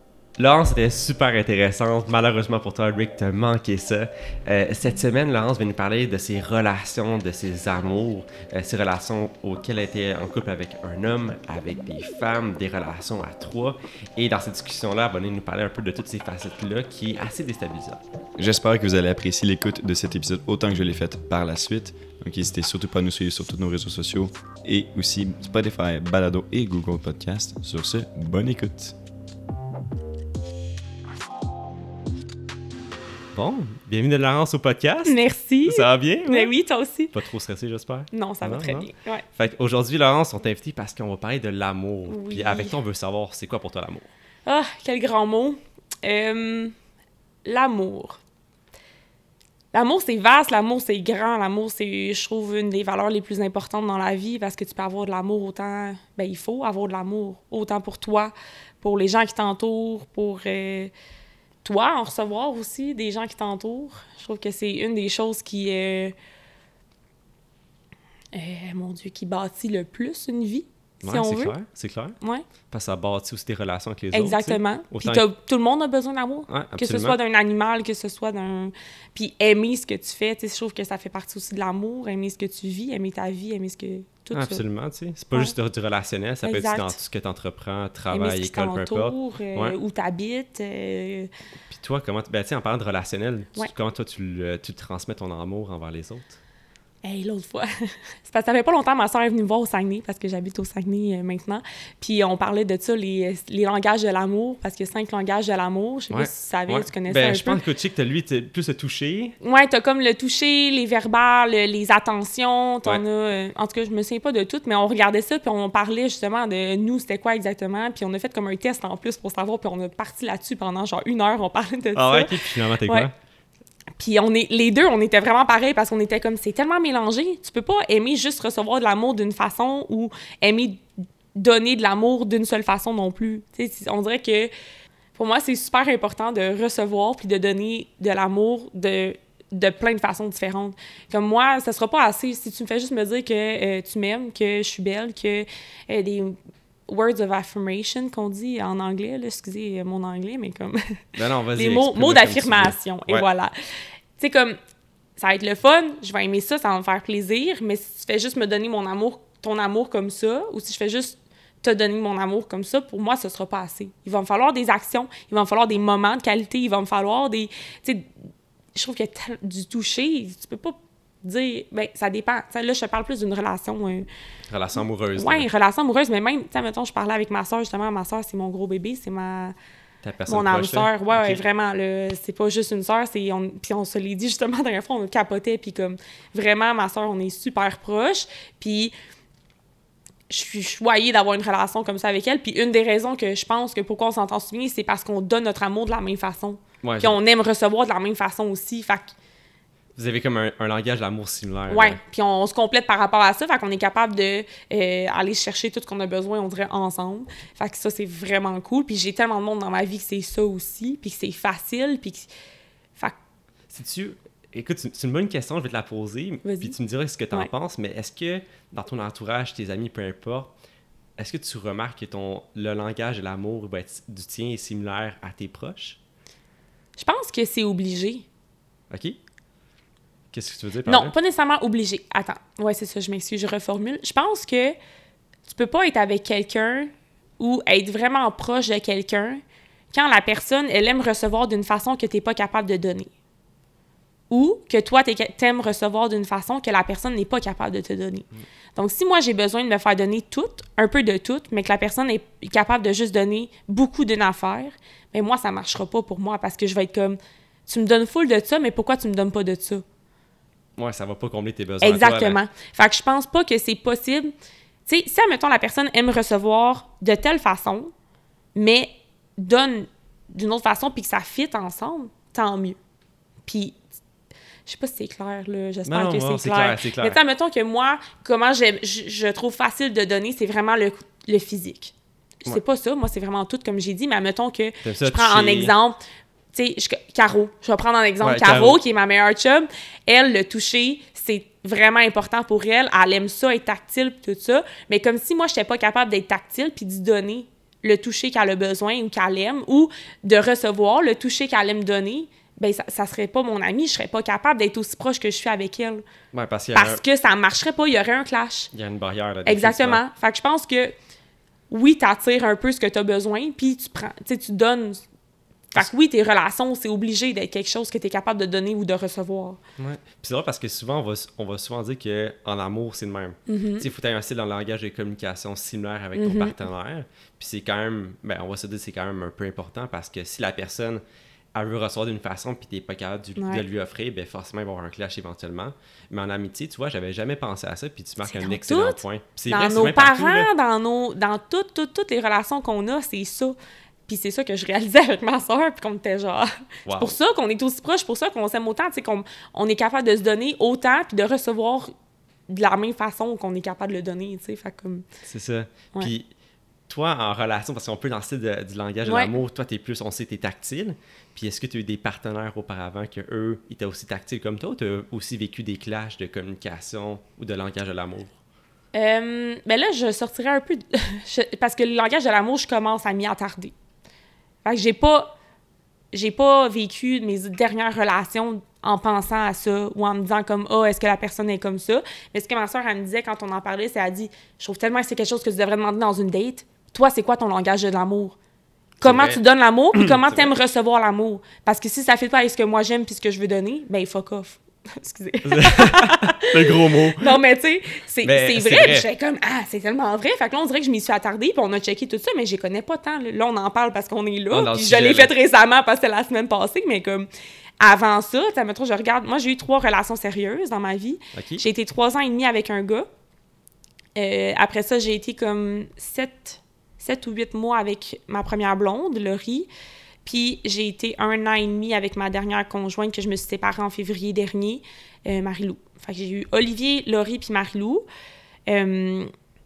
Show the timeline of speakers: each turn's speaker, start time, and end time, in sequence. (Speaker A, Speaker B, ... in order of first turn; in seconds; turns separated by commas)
Speaker A: 0.4-18.0, Speaker B: 18.4-28.9, Speaker A: 33.3-36.5, Speaker C: 35.0-37.1, Speaker A: 37.1-44.1, Speaker C: 38.1-39.2, Speaker C: 42.1-42.7, Speaker C: 44.5-46.7, Speaker C: 47.5-48.2, Speaker C: 49.7-60.9, Speaker C: 61.6-66.1, Speaker C: 68.3-71.5, Speaker A: 71.0-72.2, Speaker A: 72.7-75.2, Speaker C: 74.1-84.6, Speaker A: 76.5-77.2, Speaker A: 84.3-89.8, Speaker C: 86.4-87.0, Speaker C: 88.1-91.3, Speaker A: 91.7-96.3, Speaker C: 97.0-107.6, Speaker A: 106.1-109.3, Speaker C: 109.4-123.1, Speaker A: 121.9-123.1, Speaker C: 124.0-130.8, Speaker C: 131.3-134.5, Speaker C: 135.2-151.0, Speaker A: 151.2-153.2, Speaker C: 151.5-153.5, Speaker C: 154.2-154.6, Speaker C: 155.2-168.1, Speaker C: 168.7-174.1, Speaker A: 174.5-175.5, Speaker C: 175.2-179.5, Speaker A: 180.0-181.4, Speaker C: 180.3-188.9, Speaker C: 190.3-199.1, Speaker A: 196.8-197.2, Speaker A: 199.9-202.0, Speaker C: 201.7-212.3, Speaker A: 213.7-220.5, Speaker C: 216.4-216.8, Speaker A: 221.2-226.0, Speaker C: 227.0-228.2, Speaker A: 228.9-229.2, Speaker A: 230.3-231.1, Speaker C: 230.8-234.8, Speaker C: 235.5-239.4, Speaker C: 239.9-243.1, Speaker C: 244.3-259.8, Speaker A: 260.8-262.4, Speaker C: 261.8-264.3, Speaker C: 264.9-267.9, Speaker C: 268.5-272.8, Speaker C: 273.5-273.8, Speaker C: 274.6-281.9, Speaker A: 275.9-277.2, Speaker C: 282.4-286.0, Speaker A: 284.8-285.7, Speaker C: 286.5-306.0, Speaker A: 288.2-288.8, Speaker A: 306.3-307.0, Speaker C: 306.7-308.7, Speaker A: 308.7-310.0, Speaker C: 309.4-310.9, Speaker C: 311.7-315.0, Speaker C: 315.7-319.6, Speaker A: 319.8-331.0, Speaker C: 323.5-323.9, Speaker C: 326.2-326.6, Speaker A: 331.5-340.5, Speaker C: 333.4-333.6, Speaker C: 338.2-343.6, Speaker C: 344.1-351.9, Speaker A: 346.9-347.1, Speaker C: 352.5-355.0, Speaker A: 355.2-356.3, Speaker A: 356.9-368.3, Speaker C: 359.0-359.3, Speaker C: 368.9-373.7, Speaker C: 374.6-375.3, Speaker C: 376.1-388.4, Speaker A: 389.0-389.4, Speaker C: 389.0-407.3, Speaker A: 389.9-390.5, Speaker A: 395.4-397.4, Speaker A: 398.2-399.1, Speaker A: 404.5-405.3, Speaker C: 407.8-413.1, Speaker A: 411.3-411.6, Speaker C: 414.1-419.7, Speaker C: 420.2-428.0, Speaker C: 428.7-429.3